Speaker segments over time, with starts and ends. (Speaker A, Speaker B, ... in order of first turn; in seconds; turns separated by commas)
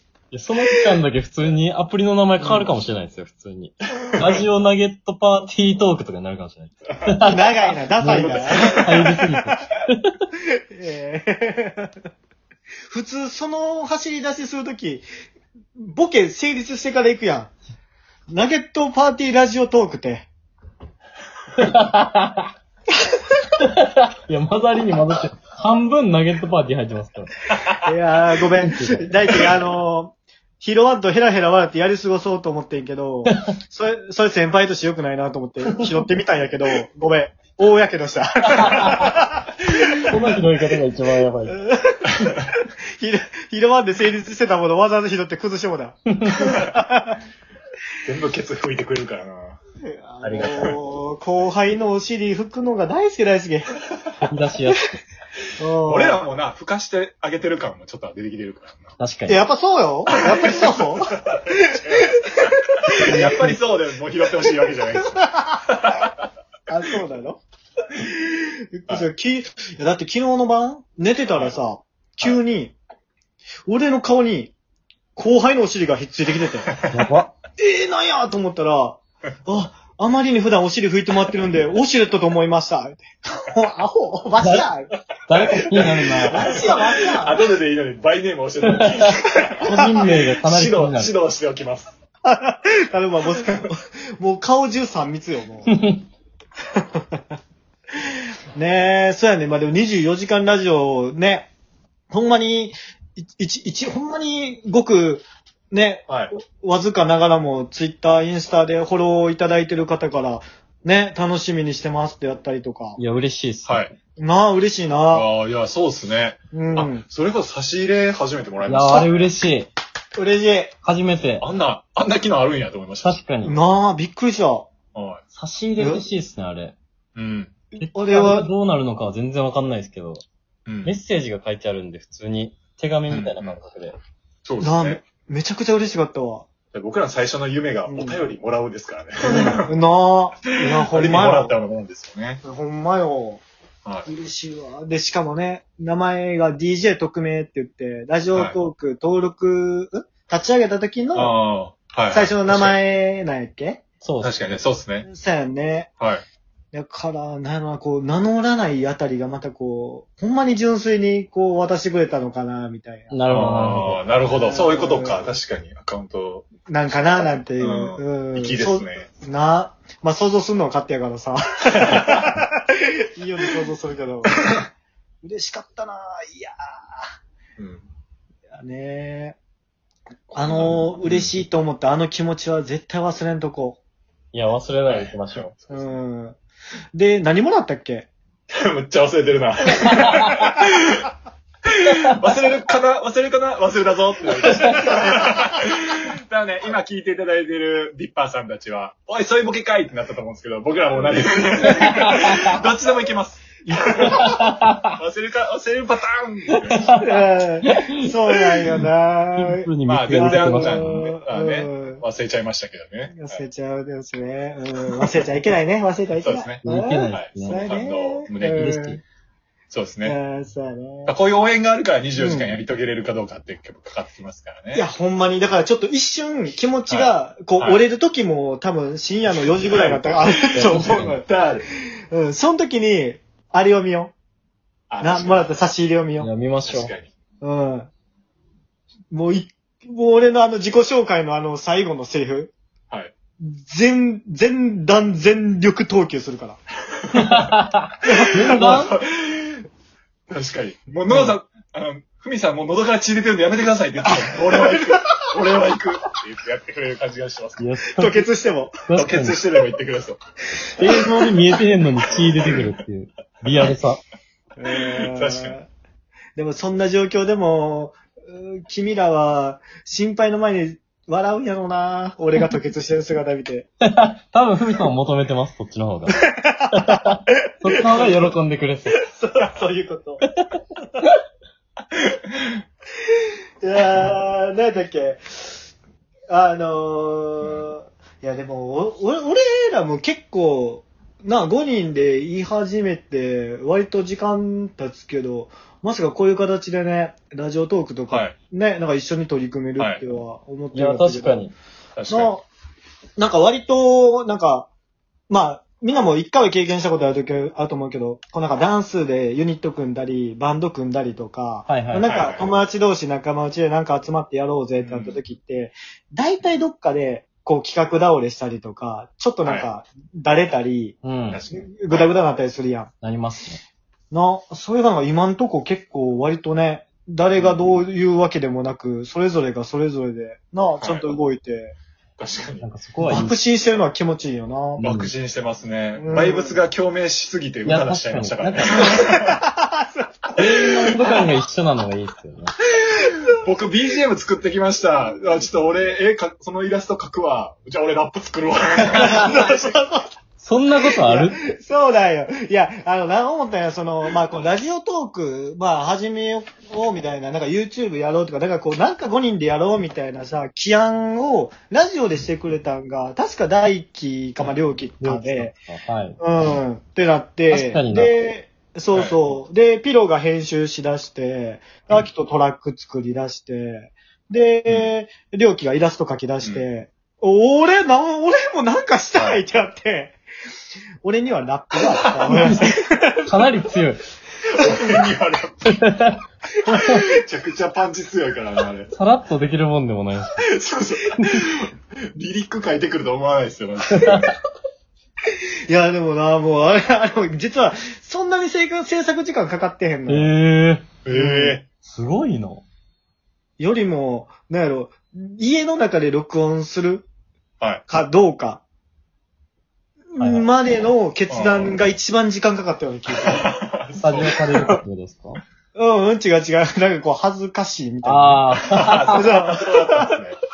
Speaker A: 0.3-10.0, Speaker B: 7.2-8.8, Speaker C: 8.2-9.2, Speaker B: 10.8-11.9, Speaker B: 12.9-15.0, Speaker B: 15.8-17.5, Speaker B: 18.3-20.3, Speaker A: 21.6-22.4, Speaker A: 23.6-27.3, Speaker B: 27.8-40.1, Speaker A: 28.6-29.2, Speaker A: 38.6-39.1, Speaker A: 40.0-41.6, Speaker B: 41.5-47.2, Speaker A: 46.1-46.5, Speaker C: 48.0-49.6, Speaker B: 49.8-53.8, Speaker A: 50.2-50.8, Speaker A: 54.2-55.0, Speaker B: 55.6-56.2, Speaker C: 55.8-58.9, Speaker A: 59.0-59.4, Speaker B: 59.3-62.3, Speaker C: 60.1-66.1, Speaker A: 62.9-63.6, Speaker B: 66.7-67.4, Speaker B: 68.0-72.8, Speaker C: 71.3-71.6, Speaker B: 73.7-74.5, Speaker B: 75.2-76.7, Speaker A: 76.9-77.3, Speaker B: 77.6-84.9, Speaker A: 84.4-84.7, Speaker A: 85.3-87.0, Speaker C: 85.7-91.9, Speaker B: 86.3-87.4, Speaker A: 88.7-91.1, Speaker B: 89.5-90.2, Speaker B: 92.2-95.7, Speaker A: 95.7-96.0, Speaker B: 98.5-101.5, Speaker B: 102.1-113.0, Speaker A: 113.0-113.9, Speaker C: 113.7-113.9, Speaker B: 114.2-115.3, Speaker C: 115.1-119.2, Speaker B: 116.5-117.0, Speaker A: 118.6-119.7, Speaker B: 120.2-120.8, Speaker A: 120.8-121.4, Speaker C: 121.4-123.2, Speaker A: 123.0-123.6, Speaker B: 123.4-124.7, Speaker C: 124.9-125.2, Speaker A: 125.3-126.8, Speaker B: 125.8-126.0, Speaker C: 127.2-127.5, Speaker A: 127.8-130.2, Speaker B: 127.9-128.5, Speaker C: 130.7-131.0, Speaker A: 130.8-134.0, Speaker C: 133.1-133.6, Speaker C: 134.4-135.0, Speaker B: 134.6-136.5, Speaker C: 136.7-139.7, Speaker B: 137.9-138.2, Speaker B: 139.2-141.6, Speaker C: 140.7-142.4, Speaker B: 142.4-143.4, Speaker B: 144.1-151.4, Speaker C: 151.1-152.8, Speaker B: 152.1-153.8, Speaker A: 154.0-154.3, Speaker C: 154.2-155.1, Speaker B: 155.1-155.9, Speaker B: 156.7-163.2, Speaker A: 163.1-164.0, Speaker C: 163.3-166.5, Speaker B: 164.4-165.3, Speaker B: 166.6-174.4, Speaker C: 167.6-169.1, Speaker C: 171.8-172.3, Speaker B: 175.2-177.0, Speaker C: 177.6-177.9, Speaker B: 178.6-179.4, Speaker B: 180.3-183.8, Speaker C: 180.4-181.4, Speaker A: 184.3-185.5, Speaker C: 184.9-186.0, Speaker B: 185.7-186.3, Speaker B: 186.9-188.1, Speaker C: 188.5-191.1, Speaker C: 191.7-207.1, Speaker A: 194.5-194.8, Speaker A: 201.8-202.5, Speaker A: 204.1-204.9, Speaker A: 206.7-207.0, Speaker B: 206.9-212.0, Speaker A: 207.6-207.9, Speaker A: 209.3-211.0, Speaker C: 209.8-213.4, Speaker B: 213.1-219.0, Speaker C: 216.2-218.6, Speaker A: 216.6-217.7, Speaker A: 218.4-219.0, Speaker C: 219.7-220.2, Speaker B: 220.0-221.1, Speaker C: 221.0-224.8, Speaker B: 222.2-222.5, Speaker B: 224.7-231.3, Speaker C: 226.9-227.8, Speaker C: 229.3-231.7, Speaker A: 230.5-231.2, Speaker B: 232.1-234.1, Speaker C: 234.9-235.6, Speaker B: 235.0-236.3, Speaker A: 236.2-236.9, Speaker C: 236.6-237.1, Speaker B: 237.4-237.9, Speaker B: 239.1-242.5, Speaker B: 243.4-246.6, Speaker A: 247.1-248.9, Speaker C: 247.2-247.5, Speaker B: 248.0-248.8, Speaker C: 248.4-249.7, Speaker C: 250.3-257.6, Speaker B: 254.1-255.0, Speaker A: 257.6-258.3, Speaker B: 257.9-258.8, Speaker A: 258.9-259.4, Speaker C: 258.9-260.2, Speaker A: 260.8-264.0, Speaker B: 260.8-261.4, Speaker C: 262.3-262.6, Speaker B: 264.6-265.7, Speaker C: 264.7-265.6, Speaker B: 266.4-273.7, Speaker A: 273.9-276.2, Speaker B: 276.2-277.0, Speaker A: 276.7-279.0, Speaker B: 277.9-278.3, Speaker B: 279.1-280.2, Speaker B: 283.6-285.5, Speaker B: 286.3-301.4, Speaker C: 298.1-298.4, Speaker C: 299.8-300.0, Speaker A: 300.7-301.5, Speaker C: 301.9-302.3, Speaker B: 302.1-302.4, Speaker B: 303.2-304.7, Speaker B: 305.3-321.0, Speaker A: 311.7-312.1, Speaker C: 312.1-312.6, Speaker C: 314.8-315.2, Speaker A: 321.0-321.4, Speaker C: 321.3-322.0, Speaker B: 321.5-322.9, Speaker A: 323.0-323.6, Speaker B: 324.1-331.8, Speaker C: 330.8-331.1, Speaker C: 332.2-332.7, Speaker A: 332.6-333.4, Speaker B: 333.0-334.9, Speaker A: 334.8-335.1, Speaker C: 334.8-339.3, Speaker B: 336.0-336.6, Speaker A: 337.6-339.1, Speaker B: 339.0-340.7, Speaker A: 340.4-342.5, Speaker C: 343.1-349.8, Speaker B: 349.0-350.1, Speaker A: 350.4-351.4, Speaker B: 350.8-365.5, Speaker A: 365.0-366.2, Speaker B: 366.2-380.2, Speaker A: 367.5-368.1, Speaker C: 368.9-369.2, Speaker C: 379.1-379.4, Speaker B: 381.0-383.2, Speaker A: 382.3-384.0, Speaker C: 384.5-385.7, Speaker A: 385.8-386.2, Speaker B: 386.6-387.1, Speaker C: 386.8-388.9, Speaker A: 388.9-390.4, Speaker C: 390.4-394.3, Speaker A: 391.2-391.4, Speaker A: 393.9-394.3, Speaker B: 395.7-400.3, Speaker A: 400.1-400.9, Speaker C: 401.0-401.6, Speaker B: 401.1-401.6, Speaker A: 401.8-402.6, Speaker B: 403.6-407.1, Speaker B: 407.9-408.6, Speaker B: 410.1-413.5, Speaker A: 410.2-410.5, Speaker C: 411.3-411.8, Speaker C: 413.2-414.4, Speaker A: 414.0-415.4, Speaker B: 415.8-418.5, Speaker A: 418.0-419.3, Speaker C: 418.7-420.4, Speaker B: 419.1-420.1